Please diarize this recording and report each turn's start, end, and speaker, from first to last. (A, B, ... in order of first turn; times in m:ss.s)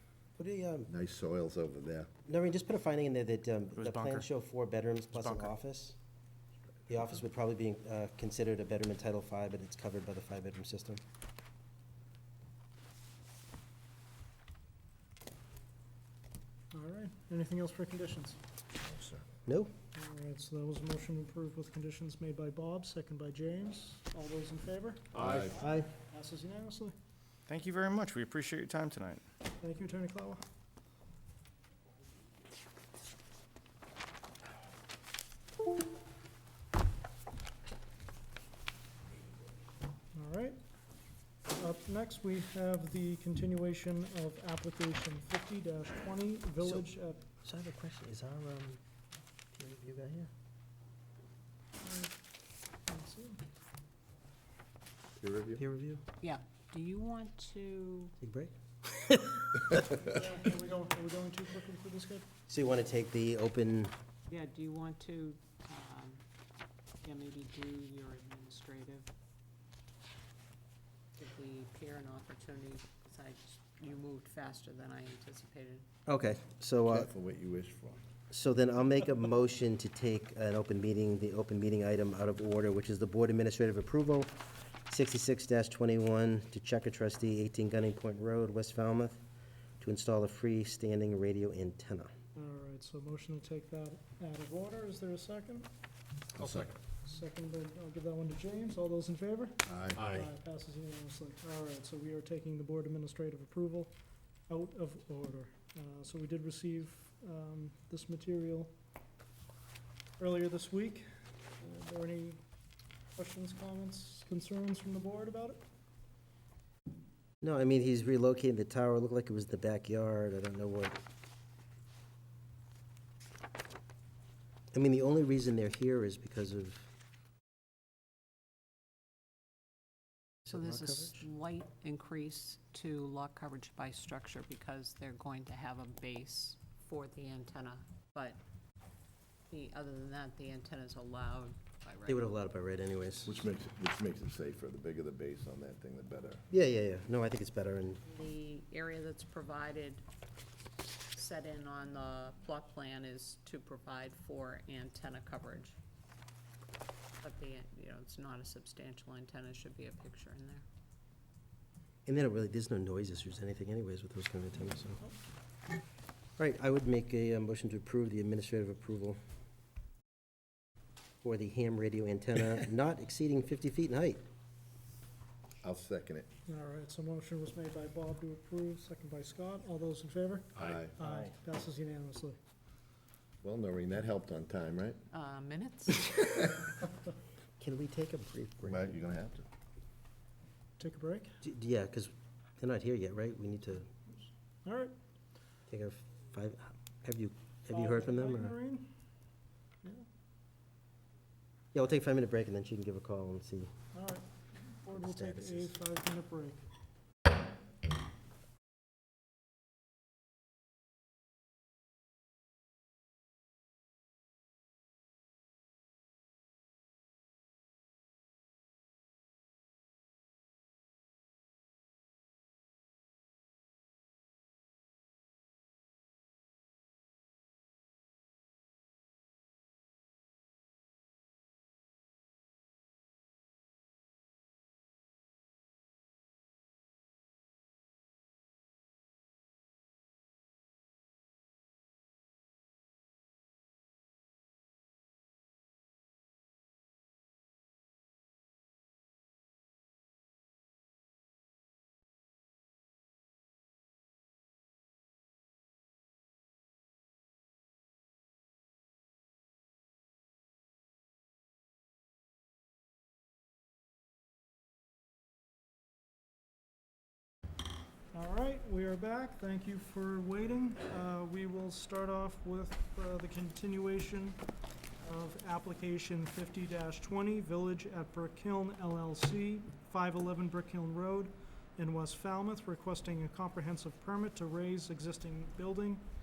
0:00.4-0:00.9 A
0:00.9-0:02.1 B
0:02.3-0:06.0 A
0:03.8-0:04.2 C
0:05.1-0:05.5 C
0:06.9-0:11.0 A
0:16.7-0:18.4 D
0:18.8-0:19.2 B
0:19.5-0:19.7 A
0:20.0-0:25.1 D
0:25.1-0:25.6 B
0:25.4-0:25.9 A
0:26.0-0:26.9 D
0:27.5-0:29.2 C
0:29.6-0:30.4 D
0:40.1-0:40.6 D
0:41.6-0:47.2 D
0:47.4-0:48.8 A
0:49.5-0:50.3 A
0:51.8-0:52.1 D
0:52.9-0:53.4 D
0:55.2-0:55.6 B
0:55.6-0:56.0 A
0:56.2-0:58.1 E
0:58.2-1:00.0 A
1:00.0-1:02.3 D
1:02.5-1:03.9 A
1:04.3-1:06.2 E
1:07.0-1:09.1 E
1:11.2-1:15.9 E
1:16.1-1:17.1 A
1:16.9-1:18.0 B
1:18.3-1:24.3 A
1:24.9-1:29.2 A
1:29.8-1:32.1 A
1:32.4-1:35.7 D
1:36.4-1:36.8 B
1:37.0-1:44.0 D
1:39.7-1:40.2 B
1:44.5-1:48.7 D
1:50.2-1:51.0 D
1:51.6-1:52.4 D
1:53.2-1:55.6 D
1:57.4-2:01.0 A
2:04.7-2:06.9 A
2:10.5-2:11.2 A
2:10.5-2:18.4 E
2:19.5-2:22.3 E
2:22.1-2:23.4 A
2:23.3-2:26.4 B
2:26.5-2:28.0 A
2:28.1-2:30.0 E
2:31.1-2:35.8 E
2:37.2-2:40.6 E
2:42.1-2:45.0 A
2:46.4-2:49.2 A
2:51.2-2:54.2 A
2:55.6-2:56.3 B
2:56.5-3:02.4 D
3:00.6-3:01.0 B
3:03.4-3:05.0 B
3:05.1-3:06.1 E
3:07.6-3:08.9 A
3:08.6-3:09.4 B
3:10.8-3:11.3 D
3:11.4-3:13.9 A
3:14.6-3:14.9 D
3:15.7-3:18.5 A
3:17.7-3:18.9 D
3:21.7-3:23.7 A
3:23.9-3:26.6 D
3:24.9-3:25.7 A
4:28.1-4:34.4 D
4:35.0-4:46.0 D